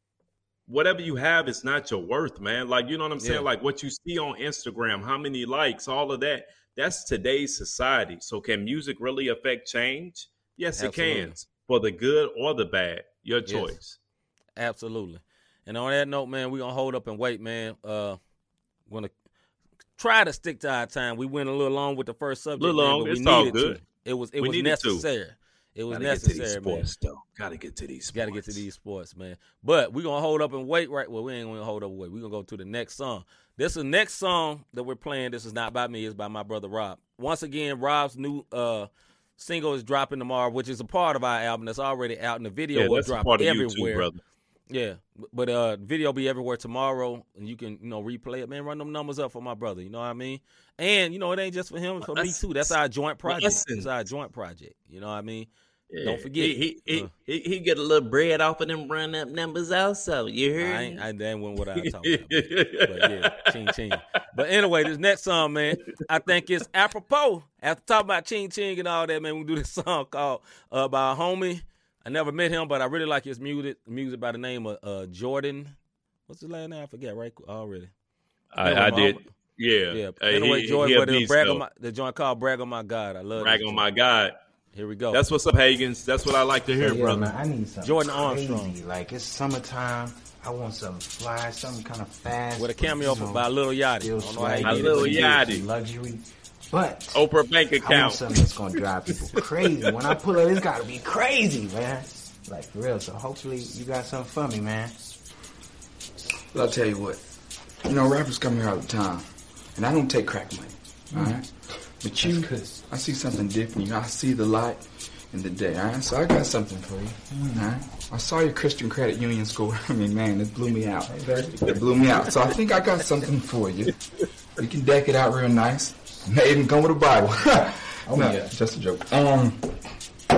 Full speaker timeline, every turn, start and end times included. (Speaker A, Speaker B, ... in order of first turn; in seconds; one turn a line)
Speaker A: 0.7-14.0
Speaker B: 3.2-3.5
Speaker B: 10.8-11.4
Speaker B: 13.5-13.8
Speaker B: 14.6-18.2
Speaker B: 20.0-26.9
Speaker A: 22.6-23.8
Speaker A: 24.4-25.1
Speaker A: 25.9-28.6
Speaker B: 28.1-44.1
Speaker A: 42.7-44.2
Speaker B: 44.7-55.5
Speaker A: 52.0-52.7
Speaker A: 53.3-53.9
Speaker A: 55.9-61.0
Speaker B: 56.0-57.1
Speaker B: 60.6-75.8
Speaker A: 61.8-63.4
Speaker B: 76.3-77.9
Speaker A: 78.5-81.7
Speaker B: 78.6-79.3
Speaker B: 79.9-83.9
Speaker A: 83.4-84.4
Speaker B: 84.7-85.2
Speaker A: 85.1-87.3
Speaker C: 86.8-97.2
Speaker B: 87.8-88.8
Speaker B: 92.6-95.3
Speaker A: 94.6-95.7
Speaker A: 97.1-98.3
Speaker C: 97.8-105.0
Speaker A: 99.2-100.0
Speaker D: 106.5-107.2
Speaker D: 107.8-123.9
Speaker C: 111.1-111.4
Speaker C: 112.2-112.8
Speaker C: 121.1-122.6
Speaker D: 124.6-129.7
Speaker C: 128.1-128.5